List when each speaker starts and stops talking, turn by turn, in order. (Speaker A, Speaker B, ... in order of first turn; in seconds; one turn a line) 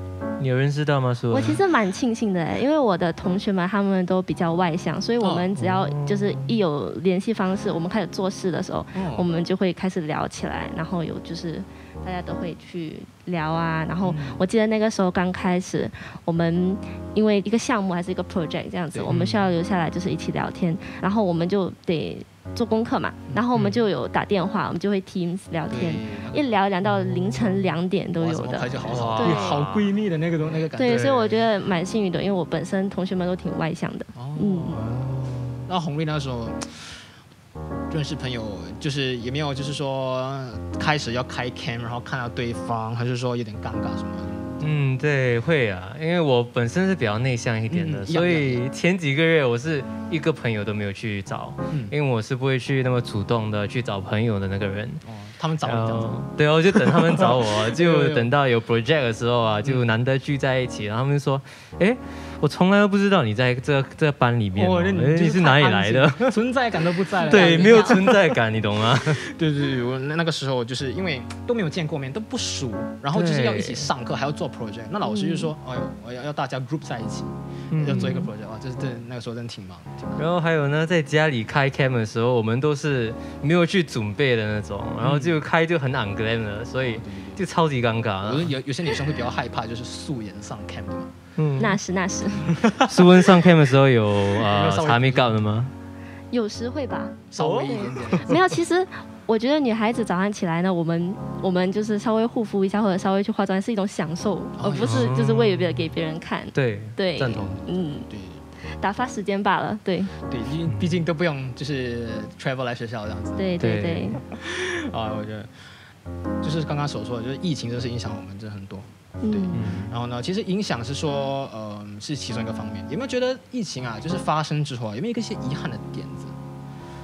Speaker A: 0.4-1.6
Speaker B: 1.3-29.6
Speaker C: 1.4-1.6
Speaker C: 5.2-5.5
Speaker A: 5.5-6.6
Speaker C: 8.9-9.3
Speaker C: 14.0-14.4
Speaker C: 18.9-19.2
Speaker A: 19.1-19.5
Speaker A: 23.6-23.8
Speaker C: 25.7-26.6
Speaker C: 28.2-31.4
Speaker A: 28.9-30.0
Speaker B: 30.7-34.7
Speaker A: 30.8-31.2
Speaker C: 34.1-37.1
Speaker A: 34.7-35.7
Speaker C: 37.9-44.8
Speaker A: 44.6-55.0
Speaker C: 47.7-48.6
Speaker C: 51.7-52.0
Speaker C: 55.0-58.3
Speaker A: 55.6-66.4
Speaker C: 64.5-68.4
Speaker A: 67.2-69.2
Speaker B: 67.2-68.0
Speaker C: 69.0-80.3
Speaker A: 73.1-73.9
Speaker B: 75.0-75.5
Speaker A: 77.7-78.3
Speaker A: 80.2-88.5
Speaker C: 85.0-85.4
Speaker C: 86.8-87.5
Speaker C: 88.2-91.2
Speaker A: 91.4-91.8
Speaker B: 91.6-92.5
Speaker C: 92.6-92.9
Speaker A: 92.8-95.7
Speaker C: 94.4-95.5
Speaker B: 96.3-108.1
Speaker C: 97.3-98.5
Speaker A: 97.4-98.3
Speaker C: 104.6-105.2
Speaker A: 104.8-105.9
Speaker A: 106.5-107.6
Speaker C: 107.2-108.4
Speaker B: 108.6-110.2
Speaker C: 110.3-113.5
Speaker A: 110.7-111.0
Speaker B: 113.3-114.2
Speaker A: 113.6-114.2
Speaker C: 114.3-115.7
Speaker C: 116.4-126.4
Speaker B: 119.2-119.7
Speaker A: 119.5-120.0